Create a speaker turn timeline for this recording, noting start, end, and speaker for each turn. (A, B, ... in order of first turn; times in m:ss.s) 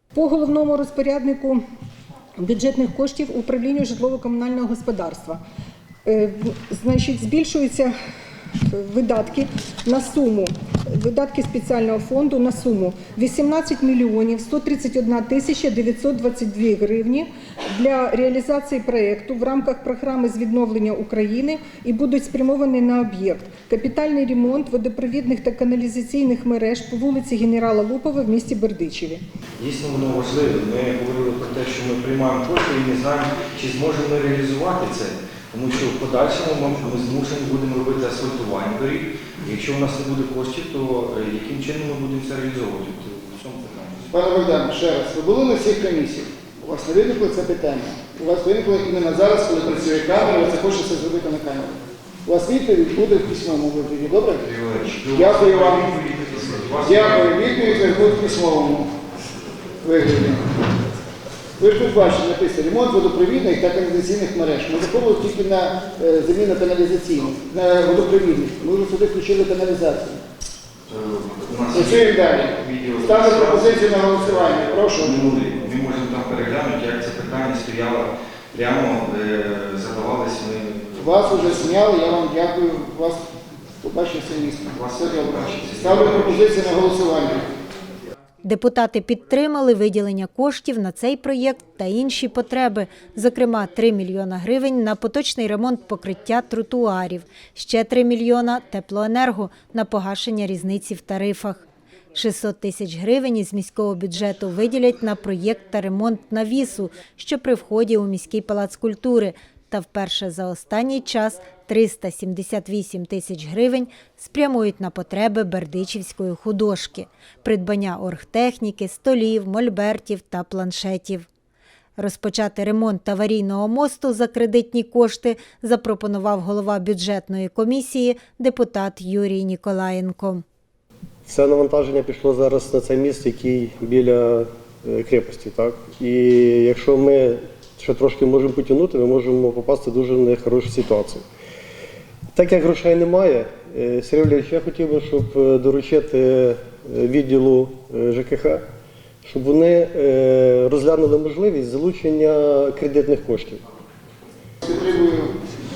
0:00.1-0:01.6 A
0:02.4-0:05.4 A
0:06.1-0:07.9 A
0:08.7-0:29.2 A
0:29.6-0:44.1 B
0:44.1-0:54.5 C
0:54.4-0:58.2 B
0:55.1-0:56.0 C
0:56.8-0:58.9 C
0:59.8-1:00.6 C
1:01.6-1:10.2 C
1:10.9-1:21.8 B
1:11.7-1:15.4 C
1:21.0-1:23.3 C
1:23.8-1:27.5 C
1:24.7-1:26.5 B
1:28.4-2:01.3 D
2:02.0-2:10.4 D
2:11.2-2:21.2 E
2:22.3-2:28.6 E
2:29.2-2:33.6 E
2:34.6-2:35.4 C